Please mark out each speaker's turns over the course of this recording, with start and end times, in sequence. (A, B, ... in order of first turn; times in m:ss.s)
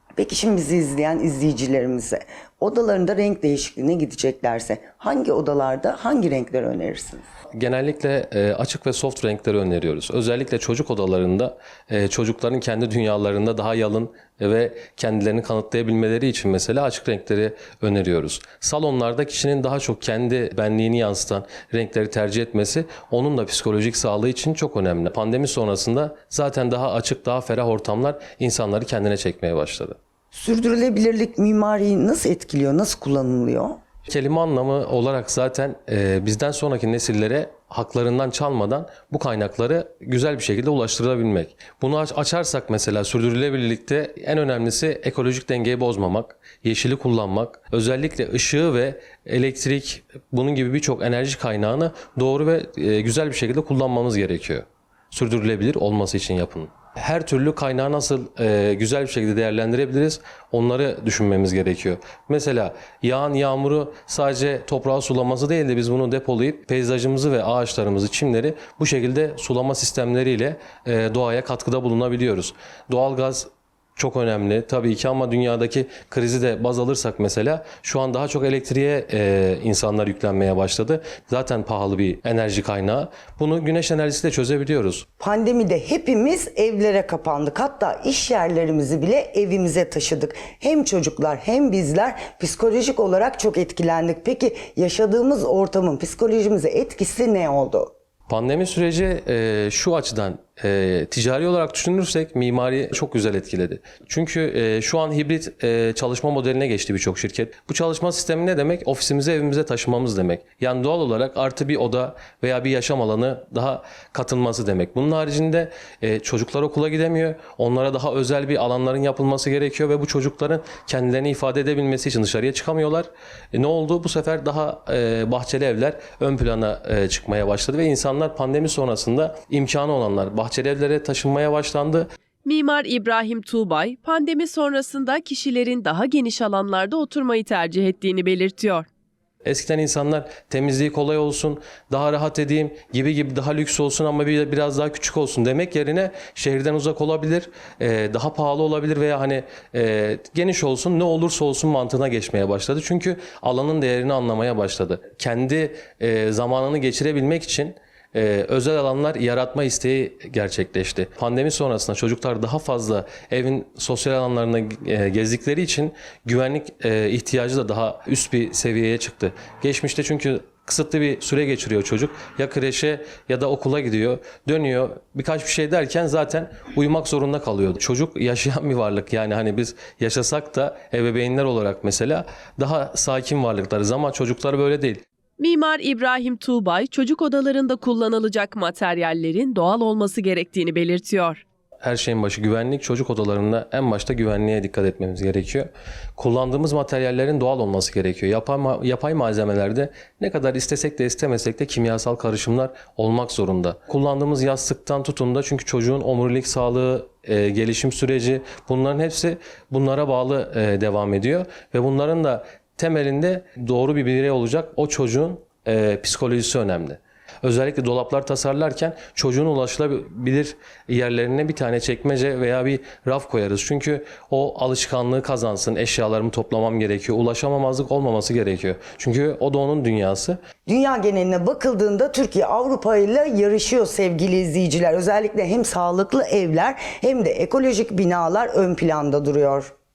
0:00.2-0:07.3 A
0:07.5-0:30.0 B
0:30.3-0:33.8 A
0:34.1-1:25.0 B
1:25.2-1:37.9 A
1:38.3-2:12.1 B
2:12.4-2:18.9 C
2:19.4-3:05.0 B
3:05.4-3:11.4 C
3:11.8-3:50.4 B
3:50.7-3:59.7 A